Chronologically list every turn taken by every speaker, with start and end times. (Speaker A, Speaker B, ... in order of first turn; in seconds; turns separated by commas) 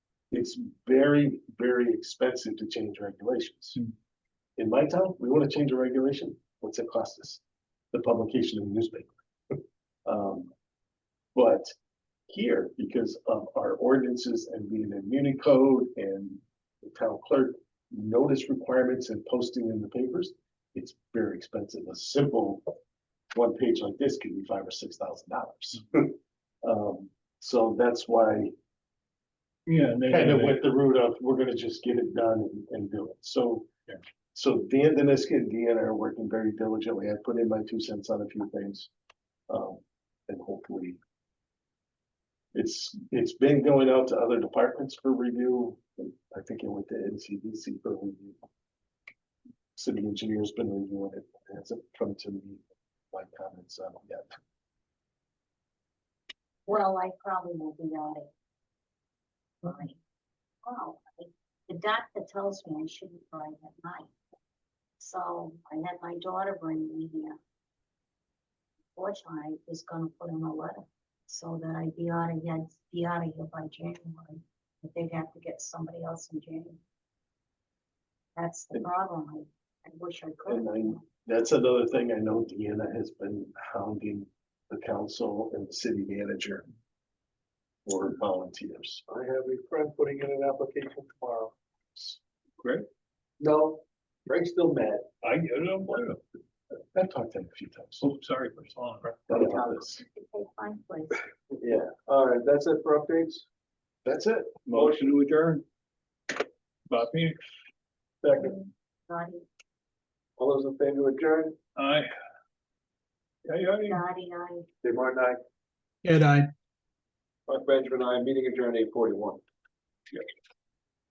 Speaker A: 0.3-3.8, Speaker A: 4.6-9.2, Speaker A: 10.1-10.5, Speaker A: 11.3-11.7, Speaker A: 12.3-22.7, Speaker A: 23.3-28.5, Speaker B: 29.7-30.6, Speaker A: 30.1-33.7, Speaker A: 34.3-38.9, Speaker A: 39.5-41.0, Speaker A: 42.5-48.4, Speaker A: 49.8-54.4, Speaker C: 56.7-58.3, Speaker C: 59.6-60.0, Speaker C: 60.6-64.1, Speaker C: 65.0-67.4, Speaker C: 69.0-76.8, Speaker C: 78.4-81.0, Speaker A: 80.5-86.7, Speaker A: 87.9-89.0, Speaker D: 89.1-91.5, Speaker B: 92.6-92.9, Speaker D: 93.4-95.1, Speaker B: 95.2-96.2, Speaker A: 96.9-98.1, Speaker B: 98.0-99.2, Speaker A: 99.3-100.0, Speaker C: 99.3-101.2, Speaker D: 101.6-103.5, Speaker A: 104.0-104.5, Speaker B: 104.7-105.7, Speaker D: 104.7-105.0, Speaker B: 106.9-107.5, Speaker D: 108.2-108.5, Speaker C: 108.3-109.5, Speaker D: 110.4-111.6, Speaker B: 111.8-112.1, Speaker B: 113.5-114.0, Speaker C: 113.9-114.7, Speaker D: 114.8-115.4, Speaker D: 117.5-119.4